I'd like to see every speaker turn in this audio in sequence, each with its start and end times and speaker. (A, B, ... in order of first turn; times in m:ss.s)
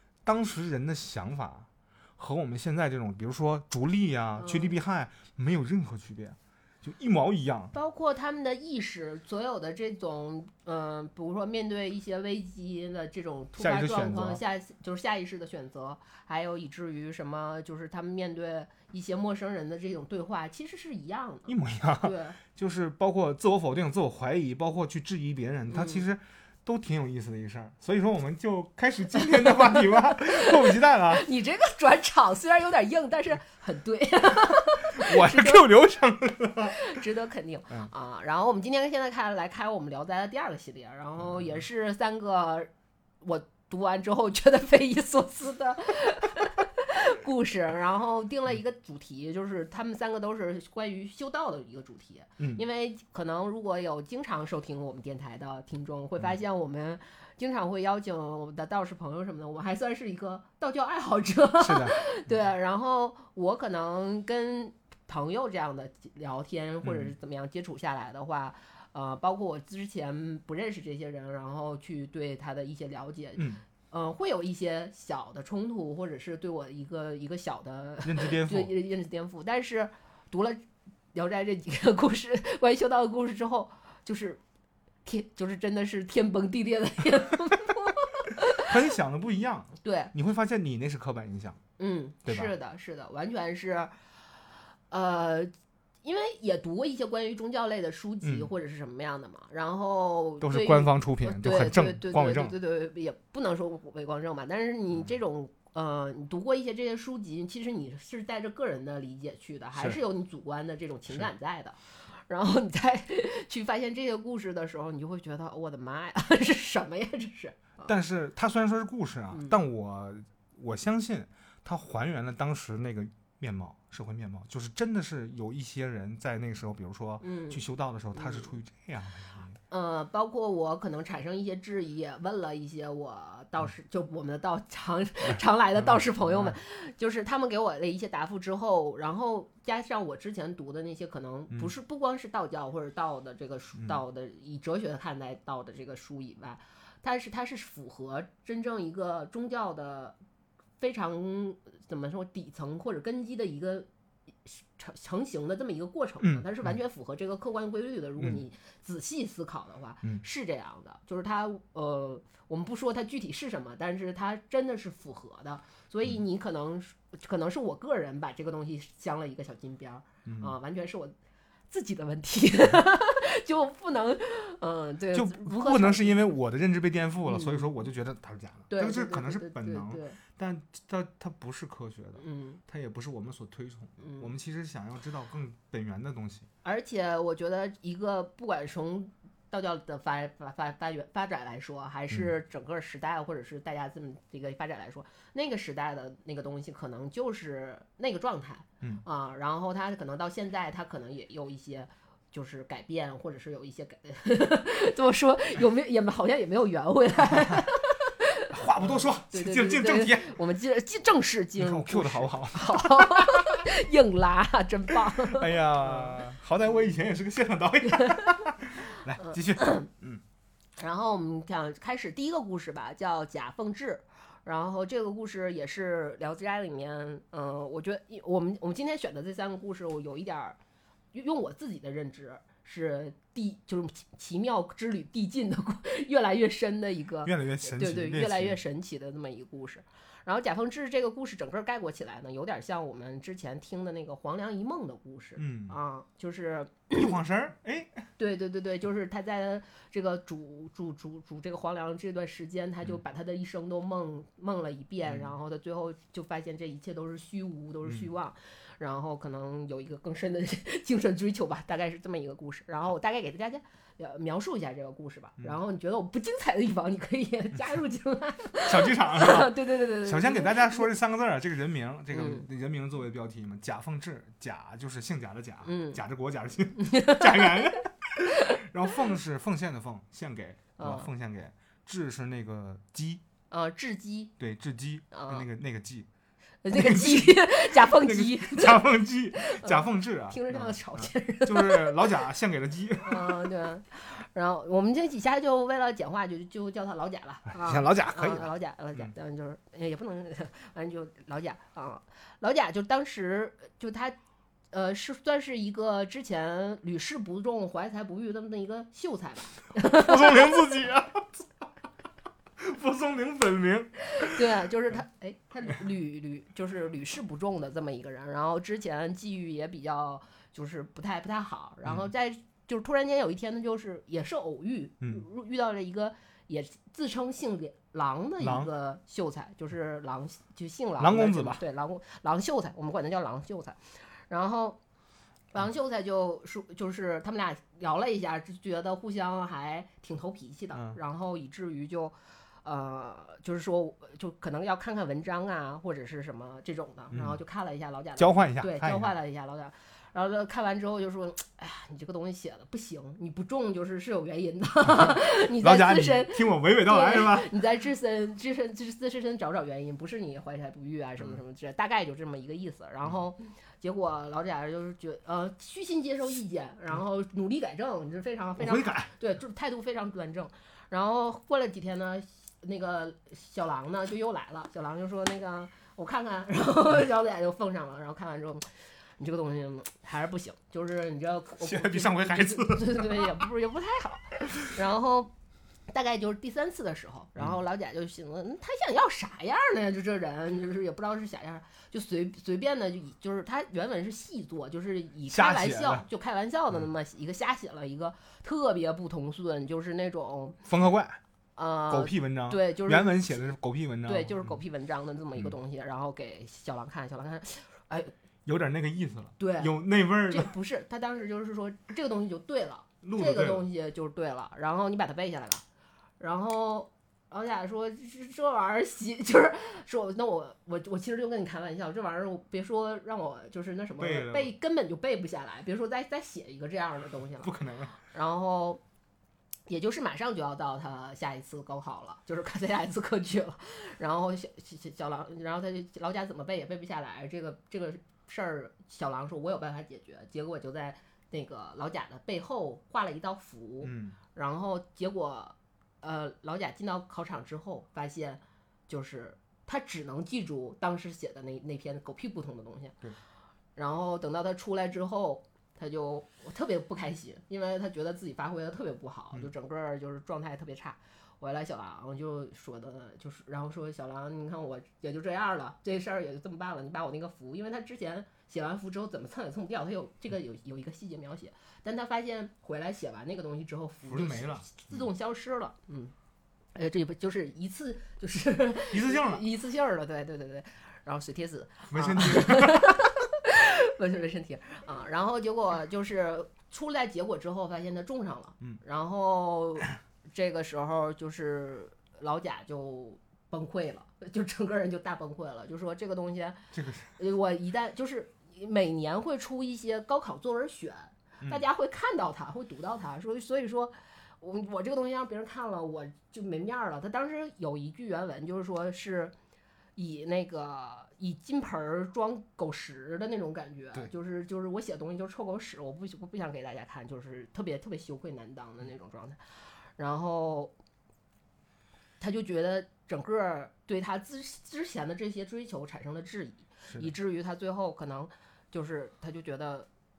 0:00.2-0:07.7 A
0:04.4-0:04.8 B
0:07.7-0:22.4 B
0:13.6-0:14.4 A
0:21.5-0:31.2 A
0:25.7-0:26.0 B
0:29.1-0:35.6 B
0:35.0-0:36.8 A
0:36.7-0:42.7 B
0:41.2-0:41.6 A
0:43.2-1:24.4 B
1:01.6-1:02.0 A
1:06.8-1:07.1 A
1:13.4-1:13.6 A
1:18.0-1:18.7 A
1:25.0-1:28.7 B
1:28.6-1:31.6 A
1:29.8-1:30.1 B
1:31.8-1:33.9 B
1:32.2-1:32.5 A
1:34.9-1:35.5 B
1:36.0-1:57.9 B
1:38.2-1:38.5 A
1:40.4-1:42.5 A
1:57.9-2:09.6 A
2:07.2-2:07.6 B
2:08.1-2:08.5 B
2:09.7-2:30.2 B
2:16.3-2:16.5 A
2:30.8-2:33.9 B
2:34.4-2:51.1 B
2:36.2-2:36.7 A
2:50.2-2:50.5 A
2:51.7-2:56.2 B
2:55.1-3:06.5 A
2:57.2-2:57.7 B
2:58.7-3:00.2 B
3:02.2-3:02.6 B
3:04.0-3:04.3 B
3:06.6-3:36.2 B
3:27.4-3:27.6 A
3:28.5-3:30.3 A
3:31.6-3:33.6 A
3:35.3-3:40.2 A
3:38.0-3:38.5 B
3:39.2-3:39.9 B
3:40.8-3:50.6 B
3:51.1-4:07.1 B
3:57.2-3:58.6 A
4:05.4-4:05.8 A
4:06.9-4:08.1 A
4:08.2-4:30.9 B
4:15.1-4:15.3 A
4:28.6-4:43.2 A
4:32.1-4:32.4 B
4:35.6-4:36.0 B
4:36.8-4:37.7 B
4:40.8-4:41.1 B
4:43.5-4:44.3 B
4:44.4-4:46.1 A
4:45.1-4:45.4 B
4:46.6-4:52.1 B
4:46.7-4:53.5 A
4:53.0-5:04.2 B
4:57.5-4:59.1 A
5:04.7-5:10.5 B
5:09.9-5:11.4 A
5:12.6-5:14.4 A
5:14.2-5:34.8 B
5:28.4-5:28.7 A
5:31.0-5:31.6 A
5:35.5-6:18.7 B
5:40.7-5:41.0 A
5:47.1-5:47.4 A
5:48.2-5:49.1 A
5:54.9-5:57.5 A
6:08.6-6:09.1 A
6:19.2-6:25.3 B
6:21.6-6:23.4 A
6:25.9-6:40.7 B
6:35.3-6:36.0 A
6:40.7-6:41.2 A
6:41.6-6:43.2 B
6:41.9-6:44.6 A
6:44.0-6:48.1 B
6:48.4-6:50.5 A
6:49.4-6:49.8 B
6:50.3-6:55.6 B
6:53.0-6:53.7 A
6:56.2-7:08.8 B
7:04.0-7:04.5 A
7:07.4-7:07.9 A
7:09.7-7:33.0 B
7:23.8-7:24.2 A
7:33.8-7:56.1 B
7:54.1-7:54.9 A
7:56.7-8:29.3 B
7:58.9-7:59.4 A
8:01.9-8:02.9 A
8:16.7-8:17.1 A
8:30.0-8:39.4 B
8:40.0-8:40.7 B
8:42.2-8:49.9 B